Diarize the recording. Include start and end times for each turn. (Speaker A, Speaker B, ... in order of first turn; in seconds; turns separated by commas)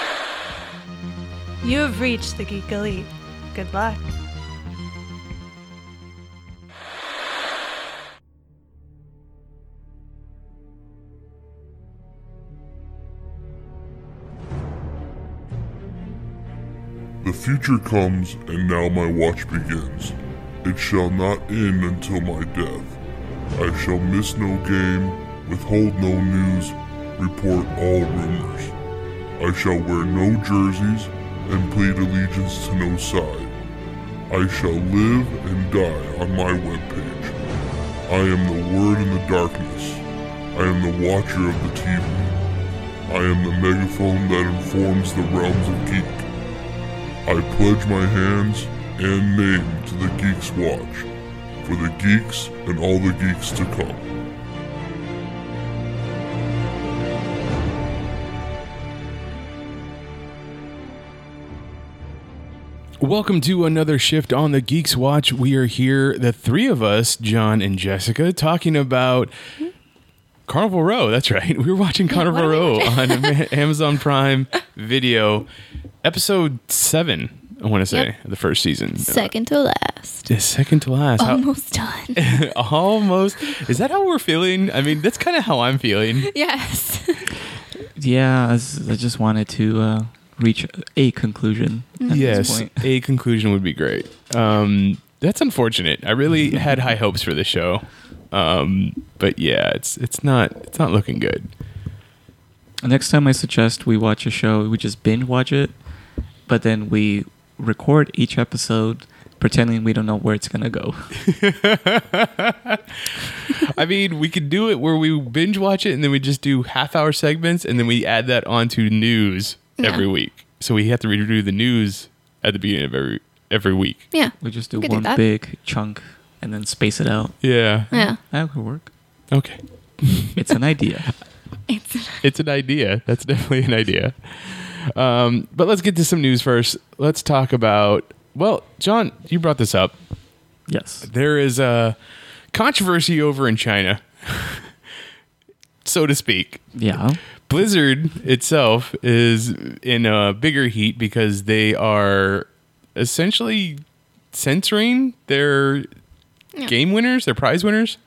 Speaker A: 1.6-4.0, Speaker B: 17.2-23.0, Speaker B: 23.6-28.7, Speaker B: 29.4-33.5, Speaker B: 34.3-37.4, Speaker B: 38.1-42.4, Speaker B: 43.1-46.2, Speaker B: 47.2-51.1, Speaker B: 51.6-54.0, Speaker C: 63.0-69.3, Speaker C: 70.5-75.5, Speaker D: 72.1-73.3, Speaker C: 76.0-79.3, Speaker D: 79.0-80.3, Speaker C: 80.3-81.4, Speaker D: 81.2-82.2, Speaker C: 82.2-86.3, Speaker D: 86.2-87.3, Speaker E: 88.0-92.9, Speaker D: 92.0-92.5, Speaker C: 92.1-101.5, Speaker E: 102.8-105.7, Speaker E: 106.5-111.1, Speaker C: 111.2-124.1, Speaker D: 119.8-120.0, Speaker D: 124.1-125.2, Speaker E: 124.4-127.3, Speaker C: 127.4-127.9, Speaker D: 127.9-128.2, Speaker E: 128.0-128.9, Speaker C: 129.3-130.5, Speaker E: 130.3-131.1, Speaker D: 131.7-132.2, Speaker C: 132.2-139.9, Speaker E: 140.7-141.1, Speaker C: 141.1-141.9, Speaker C: 142.5-144.7, Speaker C: 145.8-146.7, Speaker E: 146.7-147.2, Speaker C: 147.5-153.8, Speaker C: 154.3-155.9, Speaker C: 156.7-158.0